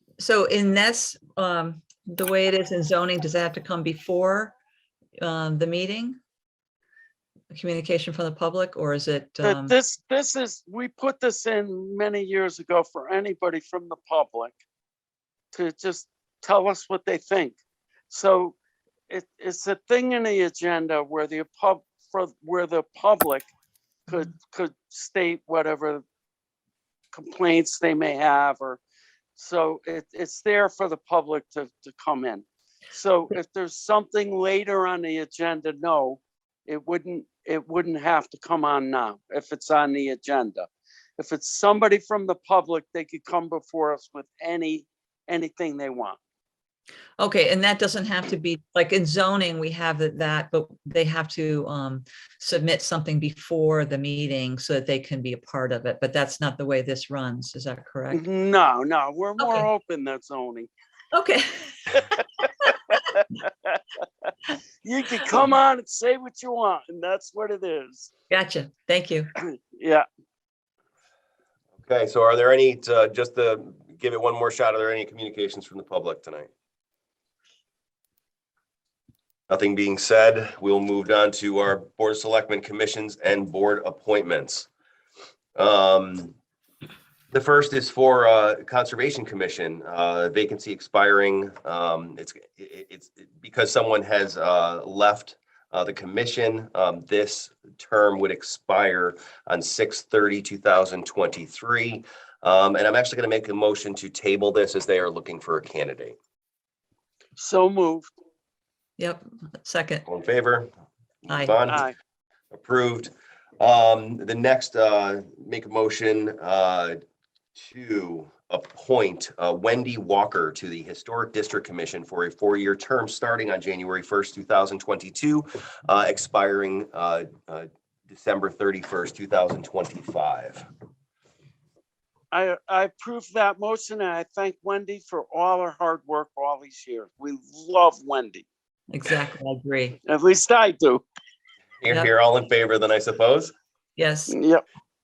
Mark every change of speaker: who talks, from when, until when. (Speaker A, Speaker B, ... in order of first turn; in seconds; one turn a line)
Speaker A: 0.2-4.5
Speaker A: 5.2-6.2
Speaker A: 7.5-9.7
Speaker B: 9.4-14.5
Speaker B: 15.5-17.6
Speaker B: 18.1-18.5
Speaker B: 19.1-23.5
Speaker B: 24.1-26.0
Speaker B: 27.1-28.8
Speaker B: 29.4-40.7
Speaker B: 41.2-46.2
Speaker A: 47.2-58.2
Speaker B: 58.1-60.7
Speaker A: 59.4-59.7
Speaker A: 61.1-63.0
Speaker B: 63.5-63.8
Speaker B: 64.8-68.1
Speaker A: 68.3-69.3
Speaker B: 69.4-70.0
Speaker C: 71.8-76.5
Speaker C: 79.5-84.7
Speaker C: 85.5-86.3
Speaker C: 87.3-106.2
Speaker B: 107.4-108.1
Speaker A: 109.0-110.1
Speaker C: 110.1-110.7
Speaker C: 111.2-111.9
Speaker A: 111.3-111.5
Speaker B: 111.7-111.9
Speaker C: 112.5-117.0
Speaker C: 117.5-130.7
Speaker B: 132.3-138.4
Speaker A: 138.9-140.0
Speaker B: 140.0-141.0
Speaker C: 141.8-143.5
Speaker A: 144.0-144.3
Speaker B: 144.3-144.6